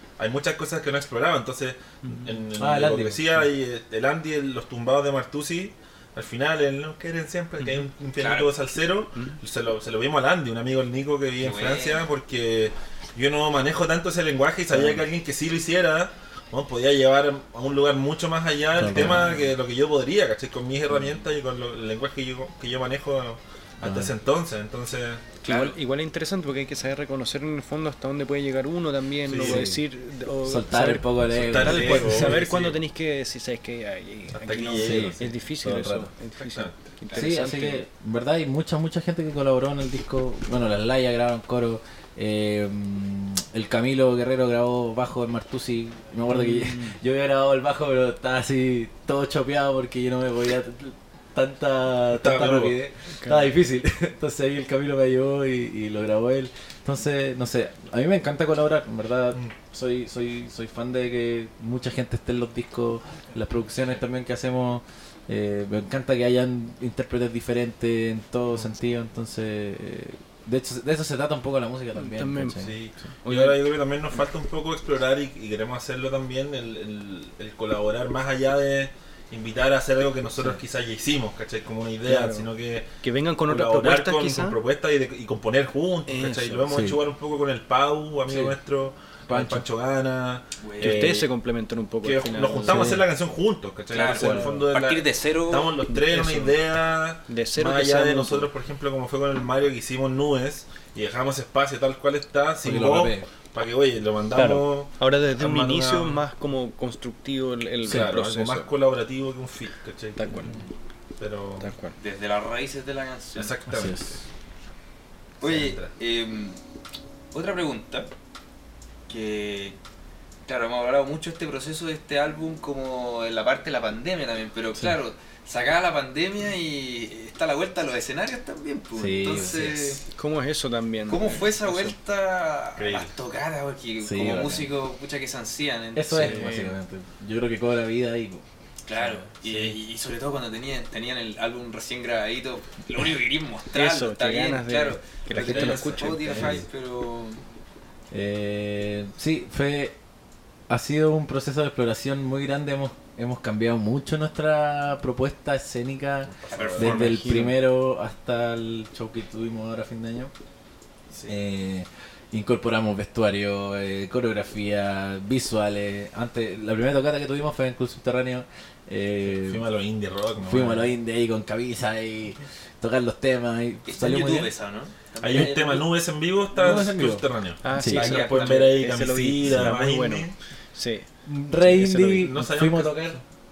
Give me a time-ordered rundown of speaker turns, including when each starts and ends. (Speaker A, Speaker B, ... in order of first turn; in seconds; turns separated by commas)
Speaker A: 0.2-25.2, Speaker B: 2.0-2.3, Speaker C: 2.6-3.5, Speaker D: 8.2-8.5, Speaker D: 11.4-12.1, Speaker C: 18.8-19.4, Speaker C: 23.8-24.1, Speaker D: 25.4-25.8, Speaker B: 25.4-37.8, Speaker A: 29.3-29.7, Speaker C: 29.4-29.8, Speaker C: 30.4-32.4, Speaker A: 31.3-32.8, Speaker A: 34.3-35.4, Speaker C: 34.8-36.1, Speaker A: 36.4-36.9, Speaker C: 37.1-72.8, Speaker B: 46.3-47.0, Speaker A: 52.1-52.8, Speaker B: 53.2-53.5, Speaker B: 72.0-73.6, Speaker A: 72.6-82.9, Speaker B: 82.1-82.5, Speaker B: 83.0-84.6, Speaker A: 83.5-91.3, Speaker B: 86.1-86.7, Speaker C: 86.7-87.0, Speaker C: 88.3-88.6, Speaker C: 89.3-89.7, Speaker D: 90.6-91.1, Speaker B: 90.8-93.0, Speaker A: 92.0-106.2, Speaker C: 92.6-93.1, Speaker D: 93.9-95.7, Speaker C: 94.1-94.7, Speaker B: 95.9-96.6, Speaker B: 97.3-98.5, Speaker C: 102.6-103.3, Speaker B: 104.3-108.7, Speaker A: 107.8-110.6, Speaker B: 110.2-110.6, Speaker A: 111.2-111.7, Speaker B: 111.6-112.0, Speaker D: 112.0-113.5, Speaker A: 113.3-114.2, Speaker C: 113.7-114.2, Speaker A: 115.4-115.9, Speaker D: 115.4-116.6, Speaker D: 117.3-118.1, Speaker D: 119.1-119.8, Speaker D: 120.5-130.0, Speaker C: 128.9-130.0, Speaker B: 130.1-131.9, Speaker D: 131.1-136.7, Speaker A: 132.8-133.1, Speaker C: 134.0-134.7, Speaker C: 135.9-138.4, Speaker A: 136.2-136.5, Speaker D: 138.9-147.4, Speaker A: 139.4-139.8, Speaker B: 143.7-146.6, Speaker A: 145.3-146.7, Speaker C: 148.1-149.9, Speaker C: 150.7-160.3, Speaker A: 156.3-157.2, Speaker D: 156.5-157.1, Speaker B: 156.8-157.6, Speaker A: 161.1-161.4, Speaker C: 161.3-169.6, Speaker A: 169.2-170.9, Speaker C: 170.4-174.5, Speaker D: 173.9-175.9, Speaker A: 175.2-180.4, Speaker C: 176.5-178.0, Speaker B: 177.6-181.1, Speaker D: 177.9-178.9, Speaker C: 179.5-179.7, Speaker C: 181.3-183.2, Speaker B: 181.6-182.3, Speaker A: 182.0-183.2